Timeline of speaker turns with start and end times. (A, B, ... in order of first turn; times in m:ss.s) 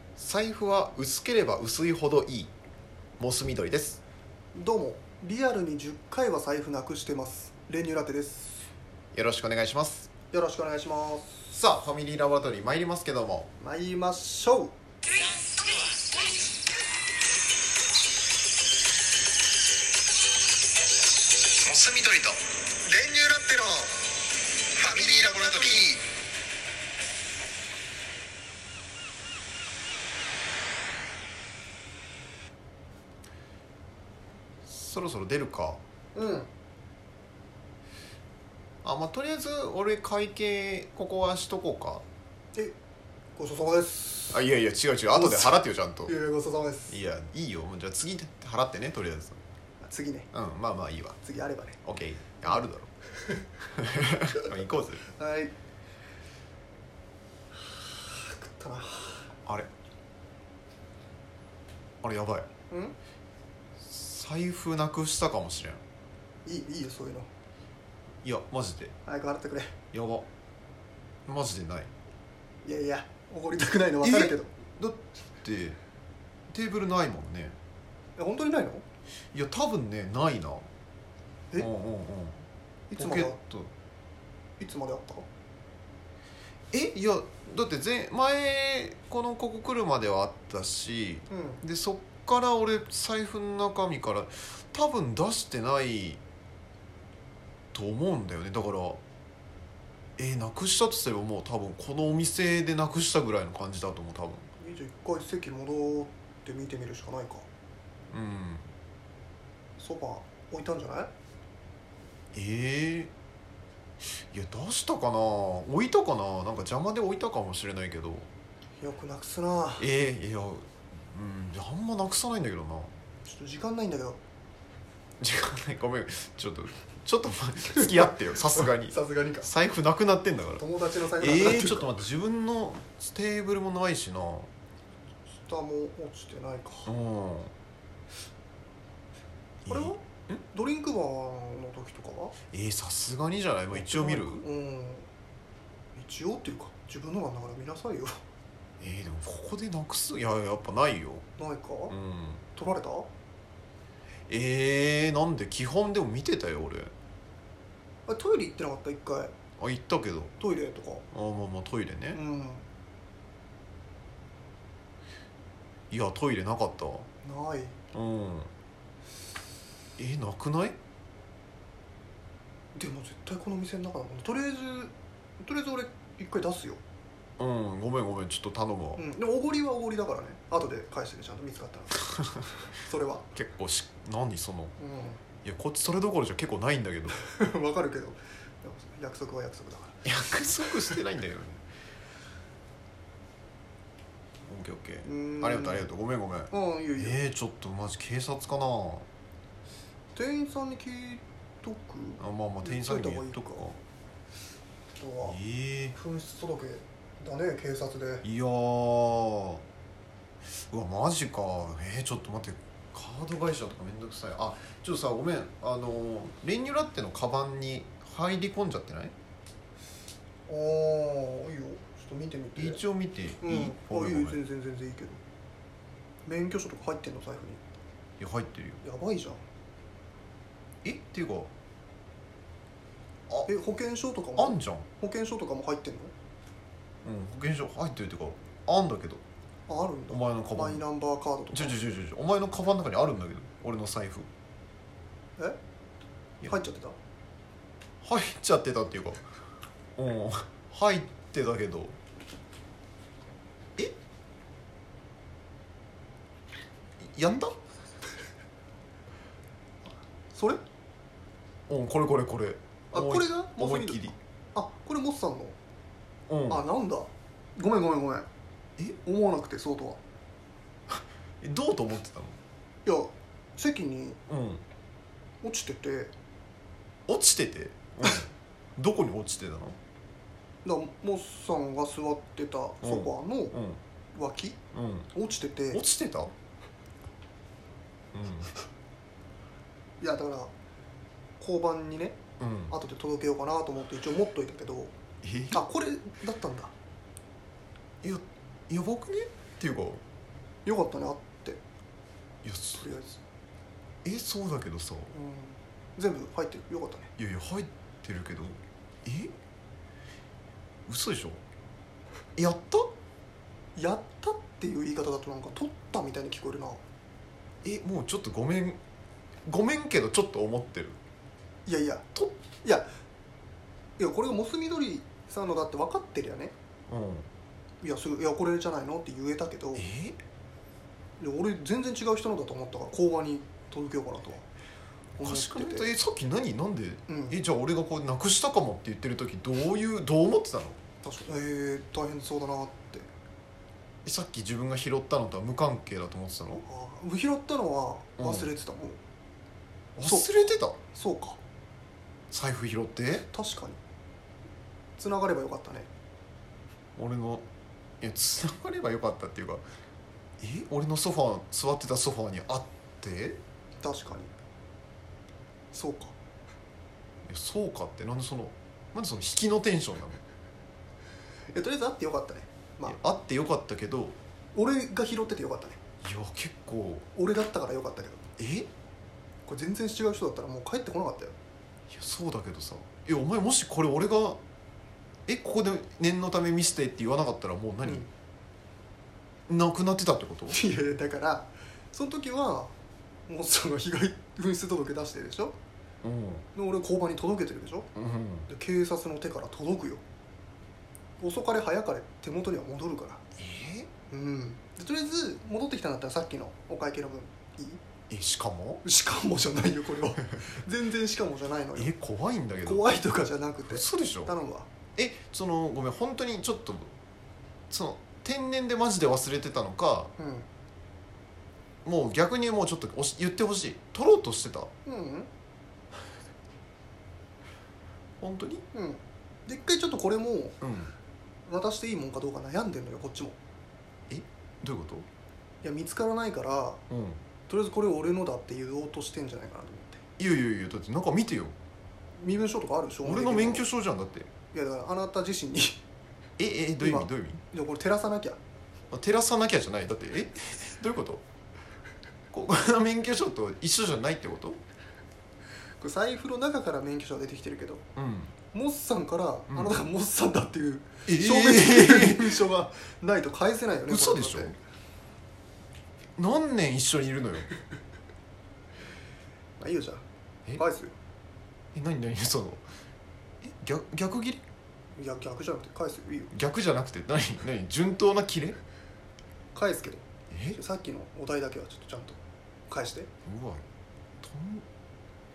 0:00.2-0:02.5 A
0:03.2-0:04.0 A
0:04.5-0:08.7 B
0:09.1-0:10.1 A
0:10.3-0:11.4 B
0:11.5-0:13.5 A
0:13.6-0:14.7 B
0:21.6-0:22.4 A
0:22.9-0:23.6 B
0:24.8-0:25.2 B
0:24.9-0:25.8 A
0:34.6-0:35.8 A
0:36.1-0:36.5 B
0:38.8-0:42.0 A
0:43.4-0:44.4 B
0:44.3-0:46.1 A
0:45.1-0:47.0 B
0:46.9-0:49.4 A
0:49.8-0:50.3 B
0:50.3-0:51.2 A
0:51.2-0:51.8 B
0:51.8-0:52.9 A
0:53.7-0:55.1 A
0:55.2-0:55.5 B
0:57.6-0:59.3 B
1:02.0-1:02.5 A
1:02.7-1:03.0 B
1:03.8-1:05.8 A
1:06.4-1:07.3 B
1:08.2-1:08.9 A
1:09.0-1:09.8 B
1:09.9-1:10.2 A
1:11.3-1:11.9 A
1:12.6-1:14.5 B
1:14.0-1:15.8 A
1:16.5-1:17.6 A
1:18.2-1:18.8 B
1:19.3-1:20.7 A
1:21.6-1:23.7 A
1:23.0-1:23.4 B
1:24.6-1:25.2 B
1:26.7-1:36.2 A
1:31.3-1:31.6 B
1:37.7-1:39.0 A
1:40.2-1:44.5 A
1:44.6-1:47.4 B
1:48.1-1:48.7 A
1:49.8-1:51.1 B
1:52.3-1:53.1 A
1:54.0-1:58.3 A
1:58.8-1:59.8 B
1:59.8-2:02.9 A
2:03.2-2:04.2 B
2:05.2-2:10.6 A
2:08.0-2:09.5 B
2:10.6-2:11.9 B
2:11.1-2:14.5 A
2:15.4-2:16.9 B
2:16.8-2:17.5 A
2:19.6-2:20.4 A
2:19.7-2:22.3 B
2:22.5-2:24.4 A
2:23.7-2:25.1 B
2:25.9-2:28.2 B
2:28.8-2:31.2 A
2:31.4-2:31.9 B
2:31.9-2:32.4 A
2:32.6-2:33.1 B
2:34.3-2:36.9 A
2:38.1-2:39.3 B
2:39.6-2:40.3 A
2:40.4-2:41.0 B
2:41.1-2:42.2 A
2:42.1-2:42.6 B
2:45.9-2:47.1 A
2:47.2-2:47.8 B
2:47.9-2:48.5 A
2:50.0-2:50.8 A
2:52.7-2:56.8 B
2:57.4-2:59.0 A
2:59.0-3:03.3 B
3:03.3-3:04.8 A
3:04.8-3:05.2 B
3:05.4-3:07.2 A
3:07.2-3:10.0 B
3:10.0-3:11.6 A
3:14.4-3:19.0 A
3:15.0-3:15.9 B
3:16.5-3:17.2 B
3:20.1-3:23.6 B
3:22.2-3:23.8 A
3:24.9-3:25.4 B
3:25.2-3:26.0 A
3:25.9-3:28.2 B
3:28.2-3:29.6 A
3:30.7-3:39.1 A
3:40.5-3:42.8 B
3:42.6-3:44.4 A
3:43.4-3:45.2 B
3:46.2-3:47.6 B
3:48.2-3:48.8 A
3:48.8-3:49.4 B
3:50.8-3:51.5 A
3:53.4-3:56.1 B
3:54.4-3:54.9 A
3:57.0-3:59.2 A
3:59.7-4:01.8 B
4:00.1-4:00.8 A
4:01.5-4:04.3 A
4:06.4-4:07.0 B
4:08.0-4:09.2 A
4:10.0-4:12.0 A
4:17.0-4:17.5 A
4:20.3-4:20.6 B
4:21.7-4:24.1 A
4:22.9-4:25.5 B
4:26.3-4:26.6 A
4:26.5-4:28.3 B
4:29.0-4:30.0 B
4:30.9-4:32.4 A
4:32.8-4:34.2 B
4:34.3-4:34.6 A
4:35.4-4:36.1 B
4:37.1-4:39.8 A
4:40.6-4:43.5 B
4:42.8-4:43.8 A
4:44.1-4:44.6 B
4:44.7-4:45.1 A
4:45.1-4:45.8 B
4:45.7-4:46.3 A
4:48.1-4:48.5 A
4:50.0-4:50.5 B
4:51.4-4:52.2 B
4:52.4-4:52.7 A
4:52.7-4:54.9 B
4:55.2-4:55.6 A
4:55.5-4:56.7 B
4:58.0-5:00.0 A
5:00.6-5:01.6 B
5:02.4-5:02.9 A
5:02.8-5:03.2 B
5:04.0-5:05.1 A
5:05.1-5:07.1 B
5:07.2-5:09.3 A
5:10.9-5:11.4 A
5:12.4-5:12.9 A
5:13.8-5:16.8 B
5:17.6-5:18.8 A
5:19.4-5:21.0 A
5:21.6-5:22.1 B
5:24.0-5:26.5 B
5:26.9-5:27.3 A
5:27.8-5:29.8 B
5:29.8-5:30.2 A
5:31.2-5:34.4 B
5:35.2-5:35.9 B
5:35.2-5:40.8 A
5:37.1-5:37.4 B
5:41.0-5:43.1 B
5:44.0-5:46.6 A
5:46.6-5:49.0 B
5:48.2-5:48.5 A
5:50.0-5:50.8 A
5:50.0-5:51.4 B
5:52.3-5:53.3 A
5:53.3-5:53.8 B
5:55.0-5:55.9 B
5:57.0-5:57.4 A
5:58.0-5:59.6 A
6:00.4-6:03.4 A
6:03.8-6:04.3 B
6:05.7-6:06.1 B
6:07.3-6:10.2 A
6:11.5-6:13.0 B
6:12.8-6:14.1 A
6:14.5-6:15.8 B
6:16.0-6:17.1 A
6:17.1-6:18.3 B
6:18.4-6:18.7 A
6:19.4-6:21.3 B
6:21.9-6:24.4 A
6:25.3-6:28.0 A
6:29.5-6:30.6 A
6:30.5-6:32.7 B
6:33.3-6:35.5 B
6:36.0-6:36.4 A
6:36.5-6:37.9 B
6:37.9-6:38.5 A
6:38.5-6:40.0 B
6:41.2-6:43.2 B
6:43.4-6:43.9 A
6:44.1-6:47.8 B
6:48.1-6:48.8 A
6:48.8-6:51.9 B
6:51.7-6:52.9 A
6:52.6-6:54.7 B
6:53.7-6:54.3 A
6:55.0-6:56.9 A
6:57.7-7:00.1 A
7:00.2-7:00.5 B
7:01.8-7:04.7 A
7:04.8-7:05.3 B
7:08.2-7:08.6 A
7:08.7-7:10.6 B
7:10.6-7:10.9 A
7:11.4-7:13.4 B
7:14.1-7:15.0 A
7:15.6-7:16.8 B
7:16.9-7:17.2 A
7:17.5-7:20.0 B
7:20.2-7:21.5 A
7:22.2-7:23.7 B
7:23.0-7:24.3 A
7:24.5-7:25.8 B
7:26.4-7:27.4 A
7:26.8-7:28.4 B
7:28.9-7:31.2 A
7:32.3-7:34.6 A
7:35.8-7:37.8 B
7:38.0-7:38.3 A
7:38.5-7:44.6 B
7:39.5-7:39.8 A
7:41.0-7:42.4 A
7:43.9-7:44.6 A
7:46.2-7:47.5 A
7:49.6-7:50.0 B
7:50.6-7:50.9 B
7:51.7-7:52.6 A
7:53.4-7:54.4 A
7:55.0-7:56.3 B
7:56.3-7:58.6 A
7:59.5-8:00.0 B
8:00.3-8:00.6 A
8:00.5-8:03.1 B
8:03.2-8:03.6 A
8:04.2-8:04.6 A